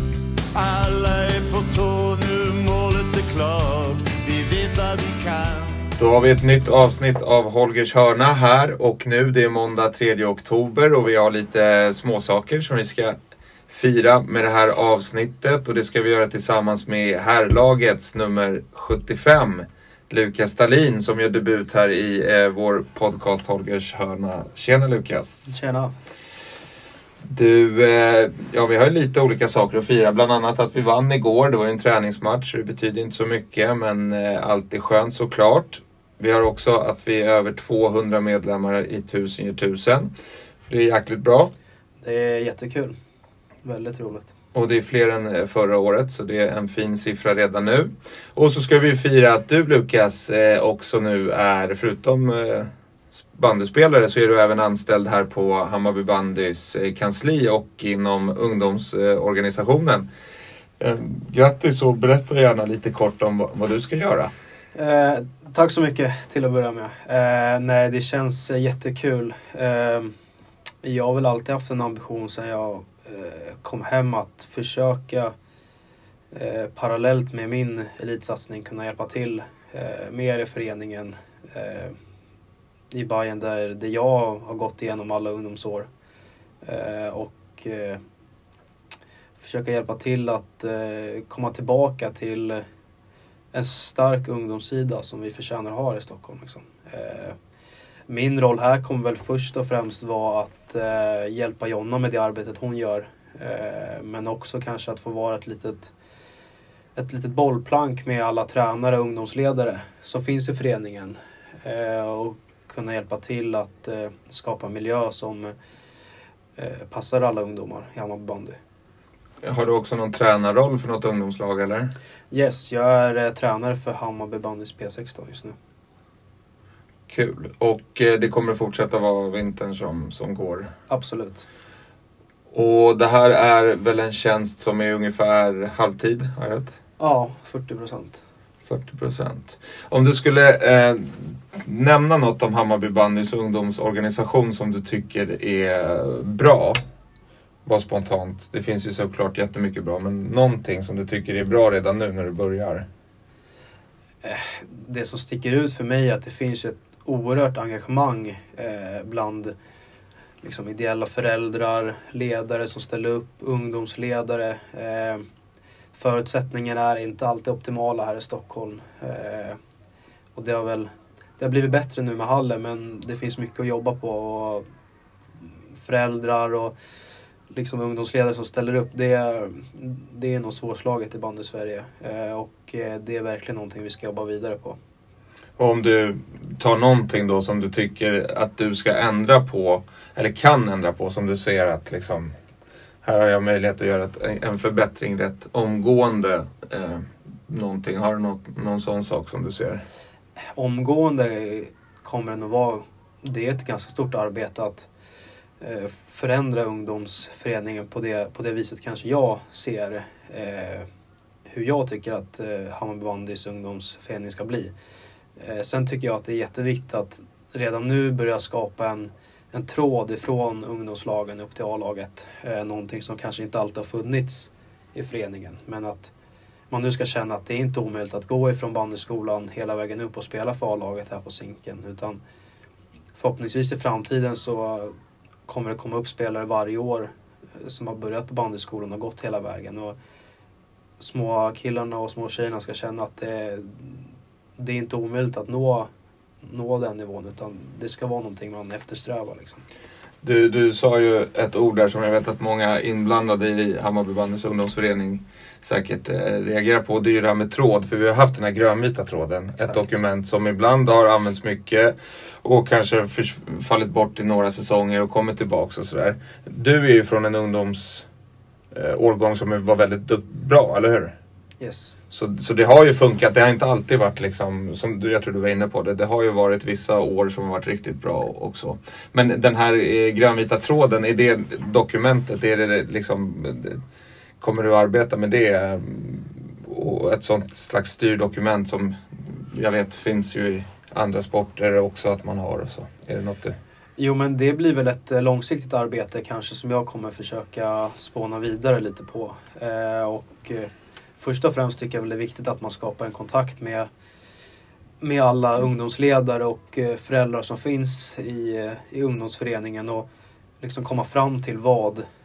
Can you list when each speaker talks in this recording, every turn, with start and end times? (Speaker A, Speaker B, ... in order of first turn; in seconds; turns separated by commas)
Speaker A: 0.5-5.9, Speaker B: 6.0-13.1, Speaker B: 13.7-25.6, Speaker C: 25.5-25.9, Speaker B: 27.2-40.1, Speaker B: 40.7-41.5, Speaker C: 42.0-42.9, Speaker C: 43.6-44.3, Speaker B: 44.5-52.7, Speaker B: 53.3-60.1, Speaker B: 60.8-64.3, Speaker C: 64.7-70.1, Speaker C: 70.8-75.3, Speaker C: 76.3-81.9, Speaker C: 82.9-85.9, Speaker C: 86.6-88.0, Speaker C: 89.4-92.6, Speaker C: 93.5-97.3, Speaker C: 98.1-105.9, Speaker C: 107.0-115.5, Speaker C: 116.6-118.5, Speaker B: 119.4-121.9, Speaker C: 122.3-125.5, Speaker B: 127.1-130.7, Speaker C: 130.9-131.4, Speaker B: 132.5-136.7, Speaker C: 137.0-138.2, Speaker B: 138.7-146.8, Speaker B: 147.7-152.8, Speaker C: 154.2-159.5, Speaker C: 160.4-165.2, Speaker C: 165.9-169.6, Speaker C: 170.3-174.6, Speaker C: 175.8-176.7, Speaker C: 177.5-184.8, Speaker B: 185.6-192.3, Speaker B: 193.0-199.8, Speaker C: 200.6-204.9, Speaker C: 205.6-210.9, Speaker C: 211.5-214.7, Speaker C: 215.4-226.1, Speaker C: 226.7-232.2, Speaker C: 233.1-234.9, Speaker C: 235.5-239.9, Speaker C: 241.0-244.0, Speaker C: 244.6-245.9, Speaker C: 246.4-249.6, Speaker B: 250.2-268.1, Speaker C: 259.6-259.9, Speaker B: 268.7-271.1, Speaker C: 271.6-272.0, Speaker B: 272.1-283.8, Speaker B: 284.4-293.5, Speaker C: 294.0-303.9, Speaker C: 305.0-310.1, Speaker C: 310.6-312.0